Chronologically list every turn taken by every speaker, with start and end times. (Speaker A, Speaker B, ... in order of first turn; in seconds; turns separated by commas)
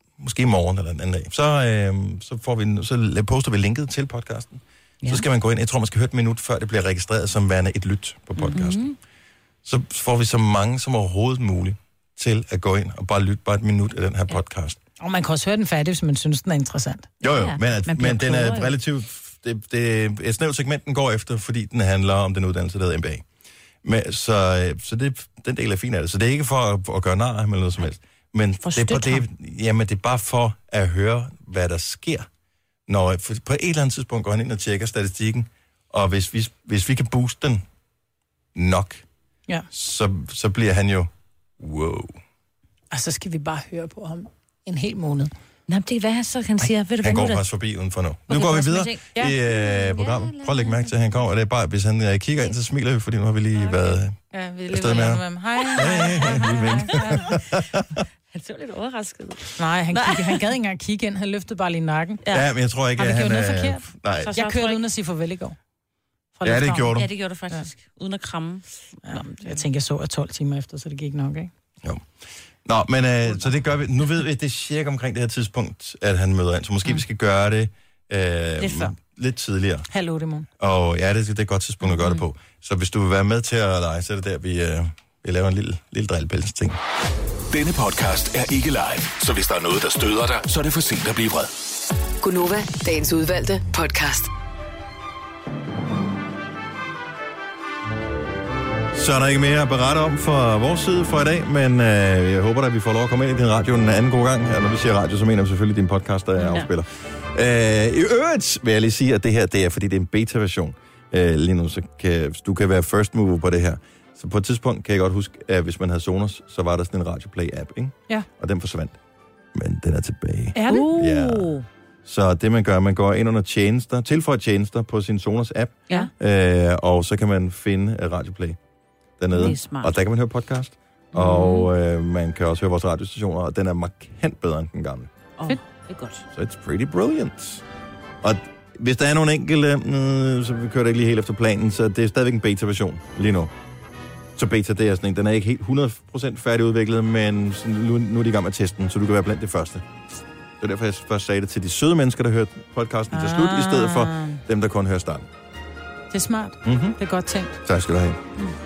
Speaker A: 0.2-8.9, Speaker B: 8.4-9.0, Speaker A: 9.7-14.8, Speaker C: 15.0-17.1, Speaker A: 17.2-23.2, Speaker B: 17.3-18.7, Speaker A: 23.8-32.3, Speaker B: 28.6-29.2, Speaker A: 32.9-37.6, Speaker A: 38.5-39.0, Speaker A: 39.7-42.2, Speaker C: 42.9-45.3, Speaker B: 45.7-47.4, Speaker A: 46.6-54.2, Speaker B: 48.3-50.9, Speaker C: 54.3-57.1, Speaker A: 54.7-55.2, Speaker B: 55.7-57.5, Speaker A: 55.7-58.0, Speaker B: 58.3-60.5, Speaker C: 59.6-62.2, Speaker A: 62.3-64.3, Speaker C: 63.0-65.6, Speaker B: 64.3-64.8, Speaker C: 66.4-66.9, Speaker A: 66.4-67.1, Speaker B: 66.9-69.6, Speaker C: 69.0-71.5, Speaker A: 71.8-72.1, Speaker A: 72.7-79.9, Speaker B: 78.6-78.9, Speaker C: 79.9-80.5, Speaker A: 80.6-86.8, Speaker B: 81.9-82.2, Speaker D: 87.5-91.5, Speaker E: 92.2-94.3, Speaker A: 98.9-119.0, Speaker B: 106.4-106.7, Speaker A: 119.5-128.6, Speaker C: 120.5-121.0, Speaker B: 120.7-121.7, Speaker A: 129.2-135.1, Speaker B: 129.3-129.9, Speaker B: 131.1-131.7, Speaker B: 135.4-136.2, Speaker A: 136.3-137.6, Speaker A: 138.2-143.5, Speaker A: 144.4-149.9, Speaker A: 150.6-155.3, Speaker C: 153.1-154.4, Speaker C: 156.1-157.6, Speaker A: 156.7-157.0, Speaker A: 157.7-158.2